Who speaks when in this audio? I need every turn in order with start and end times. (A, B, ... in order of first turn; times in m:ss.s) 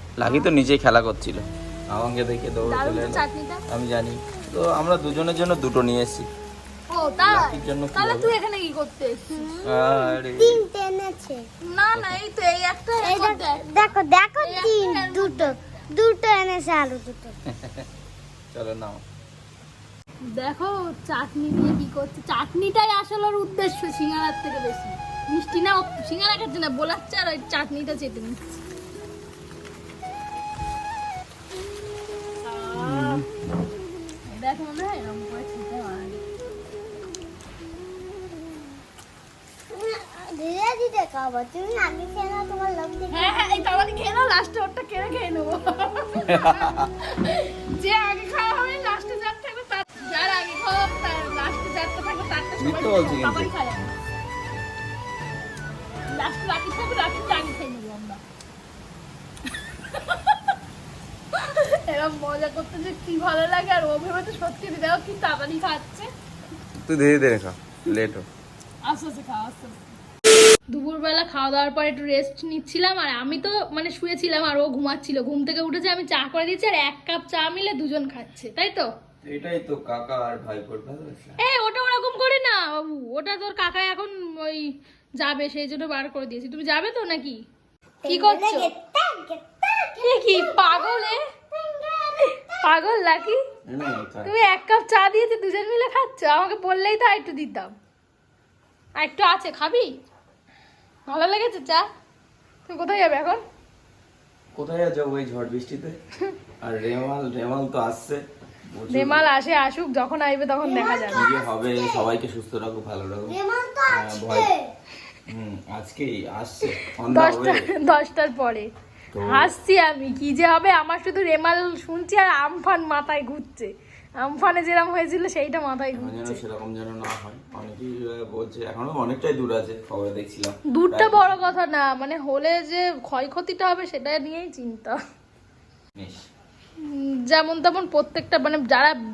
0:00.2-0:06.3 A
0:00.2-0:00.5 B
0:02.6-0:03.6 B
0:06.9-0:09.7 B
0:07.2-0:08.3 A
0:09.4-0:09.7 C
0:09.6-0:10.6 A
0:10.3-0:11.4 C
0:11.6-0:15.6 B
0:11.9-0:12.2 A
0:13.0-0:17.3 C
0:17.5-0:17.8 A
0:18.5-0:19.0 A
0:20.3-0:28.6 B
0:32.4-0:33.2 B
0:32.8-0:33.3 A
0:34.2-0:36.2 B
0:39.7-0:43.7 C
0:43.1-0:53.9 B
0:46.3-0:46.9 A
0:52.6-0:53.5 A
0:56.1-0:58.2 B
0:59.6-1:00.5 B
1:01.3-1:06.1 B
1:06.8-1:08.3 A
1:08.8-1:10.0 B
1:10.7-1:18.9 B
1:19.2-1:21.4 A
1:21.4-1:24.7 B
1:25.2-1:27.4 B
1:28.0-1:32.2 C
1:28.0-1:28.7 B
1:30.0-1:31.2 B
1:32.2-1:33.4 B
1:33.6-1:34.3 A
1:34.2-1:37.7 B
1:39.0-1:39.9 B
1:41.1-1:41.8 B
1:42.6-1:43.4 B
1:44.6-1:46.0 A
1:46.6-1:49.3 A
1:48.9-1:51.3 B
1:50.6-1:52.0 C
1:51.1-1:54.5 A
1:53.3-1:54.6 C
1:55.3-1:57.6 A
1:57.1-1:58.7 B
1:59.1-1:59.5 A
1:59.3-2:06.4 B
2:05.9-2:11.4 A
2:10.7-2:14.9 B
2:16.0-2:16.2 A
2:16.8-2:18.9 B